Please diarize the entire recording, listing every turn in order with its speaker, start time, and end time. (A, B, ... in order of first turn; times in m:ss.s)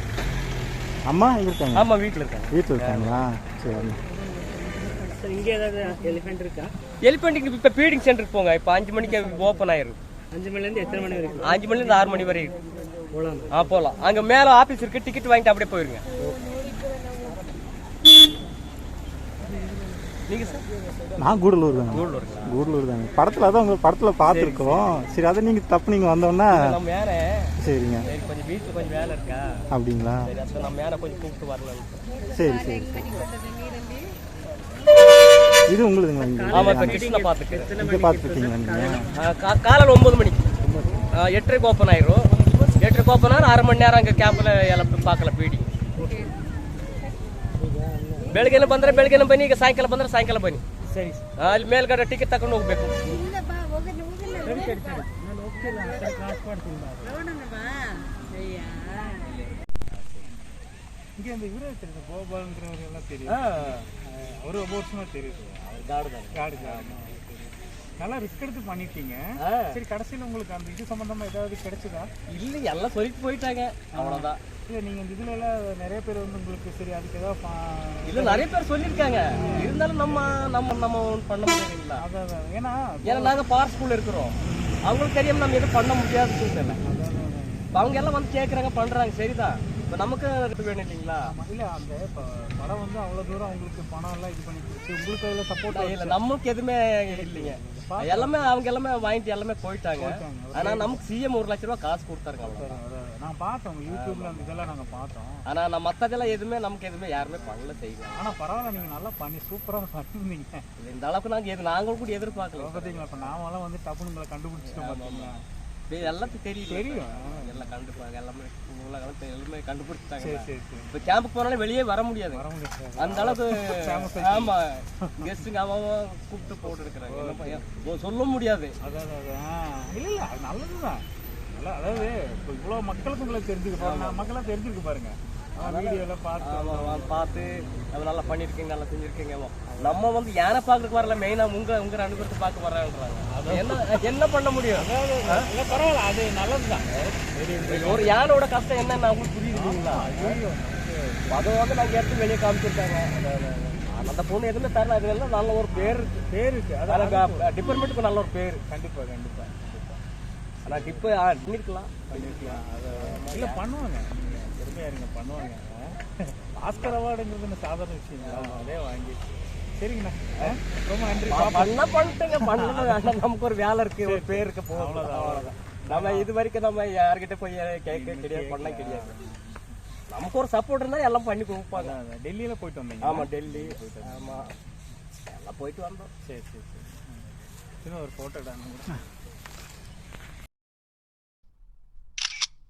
0:01.0-0:01.9 A
0:01.7-0:03.2 B
0:02.5-0:04.0 A
0:05.2-0:06.7 C
0:07.0-0:10.0 B
0:10.9-0:11.3 D
0:11.4-0:12.5 B
0:13.5-0:16.0 B
0:20.3-0:20.6 B
0:21.2-0:26.6 A
0:21.9-0:22.6 B
0:24.2-0:24.9 B
0:26.5-0:27.5 B
0:27.6-0:28.1 A
0:28.0-0:29.5 B
0:29.7-0:30.2 A
0:30.2-0:32.0 B
0:32.3-0:33.2 A
0:35.7-0:37.0 A
0:36.5-0:37.8 B
0:36.6-0:36.9 D
0:37.8-0:39.0 D
0:37.8-0:39.1 A
0:38.1-0:38.8 C
0:39.1-0:40.5 B
0:41.2-0:45.6 B
0:48.2-0:50.6 B
0:50.9-0:51.2 D
0:51.4-0:52.9 B
0:54.3-0:57.4 D
0:58.4-0:58.8 D
1:01.2-1:05.8 D
1:03.3-1:03.8 B
1:05.7-1:07.0 B
1:06.3-1:12.1 D
1:09.4-1:09.8 B
1:12.3-1:14.4 B
1:13.9-1:18.5 D
1:18.0-1:22.0 B
1:19.3-1:20.7 D
1:22.0-1:23.4 D
1:23.0-1:26.8 B
1:24.4-1:25.0 D
1:26.8-1:27.7 D
1:27.7-1:31.3 B
1:31.2-1:36.2 D
1:35.7-1:42.8 B
1:37.1-1:38.5 D
1:40.0-1:41.0 D
1:42.4-1:45.4 D
1:43.9-1:44.6 B
1:45.5-1:48.8 B
1:48.1-1:50.6 D
1:50.8-1:53.2 B
1:52.5-1:55.4 D
1:54.7-1:55.3 B
1:55.9-2:02.4 B
1:56.6-1:57.8 D
2:00.2-2:00.9 D
2:02.3-2:05.4 D
2:03.0-2:08.7 B
2:07.0-2:07.6 D
2:08.8-2:17.3 D
2:13.8-2:14.3 B
2:15.6-2:25.4 B
2:19.7-2:20.1 D
2:23.3-2:23.8 D
2:24.7-2:28.3 D
2:27.7-2:30.4 B
2:29.5-2:31.7 D
2:31.3-2:36.2 B
2:35.7-2:37.9 D
2:36.9-2:38.6 B
2:38.6-2:40.0 D
2:40.6-2:43.6 B
2:40.6-2:41.1 D
2:42.1-2:53.2 D
2:48.2-2:48.6 B
2:51.2-2:59.2 B
2:54.0-2:56.3 D
2:57.9-2:59.8 D
3:00.1-3:02.0 B
3:01.7-3:04.6 D
3:03.0-3:04.5 B
3:05.3-3:06.1 B
3:06.2-3:07.3 D
3:07.8-3:09.0 D